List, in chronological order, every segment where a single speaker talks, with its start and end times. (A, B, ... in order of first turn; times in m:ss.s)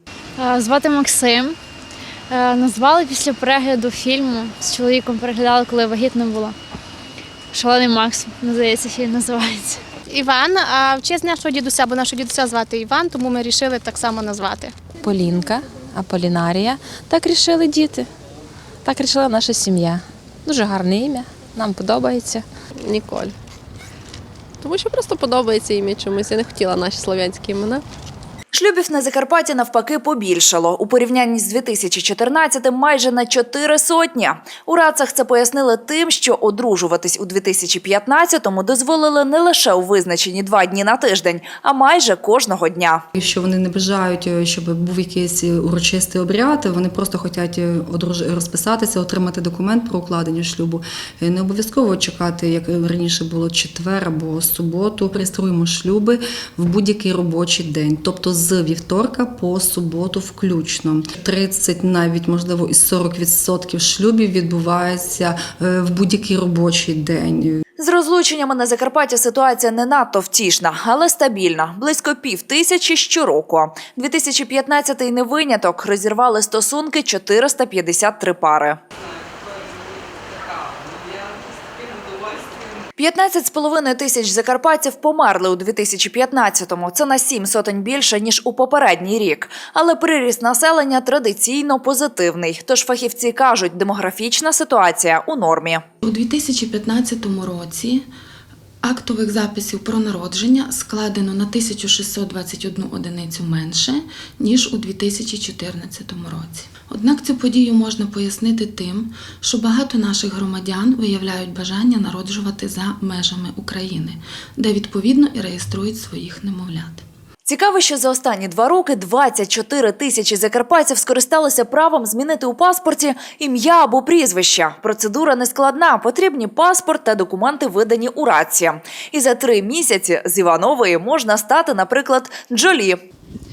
0:00.4-0:01.5 A
0:02.3-0:06.6 A
0:07.5-0:09.8 A
0:10.1-0:14.7 B
0:15.0-0:18.1 C
0:18.8-0:22.4 C
0:22.8-0:23.3 D
0:24.6-0:27.8 D
0:28.5-0:43.0 E
0:43.1-1:07.6 F
1:07.8-1:18.8 E
1:23.0-1:35.8 E
1:36.0-1:38.0 G
1:38.8-1:57.0 G
1:57.5-2:13.0 E